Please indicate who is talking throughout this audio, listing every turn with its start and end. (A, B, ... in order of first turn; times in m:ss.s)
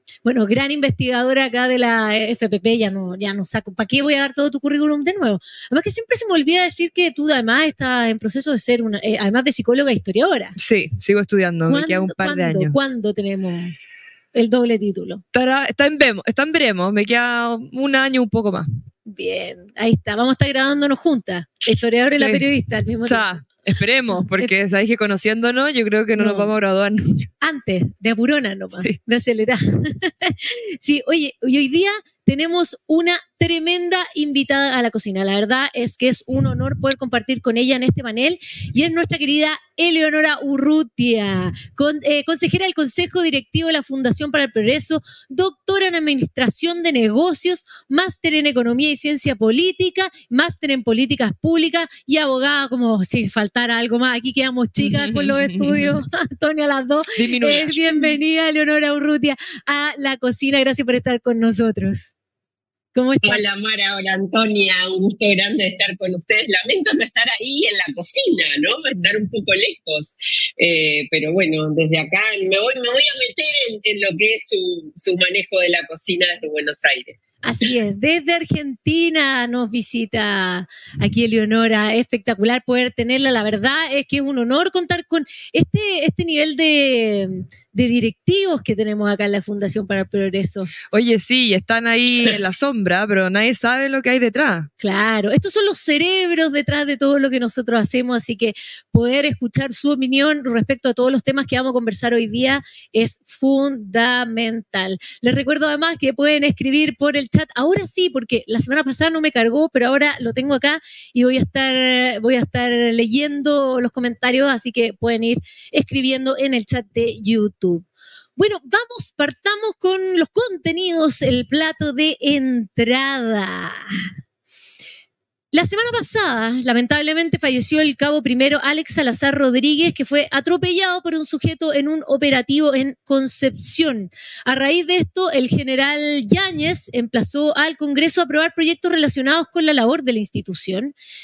0:00.2-0:10.6 A
0:10.6-0:12.9 B
0:11.6-0:13.7 A
0:14.3-0:15.2 A
0:15.3-0:18.7 B
0:19.1-0:23.3 A
0:22.1-0:22.4 B
0:23.0-0:27.3 B
0:24.2-0:24.5 A
0:26.2-0:26.5 A
0:27.4-1:02.1 A
0:54.8-0:56.0 B
0:57.2-0:57.8 B
1:02.9-1:03.4 A
1:03.2-1:17.2 C
1:17.4-1:30.7 A
1:30.9-1:34.7 B
1:34.8-1:57.8 A
1:58.4-2:04.1 A
2:05.5-2:20.9 A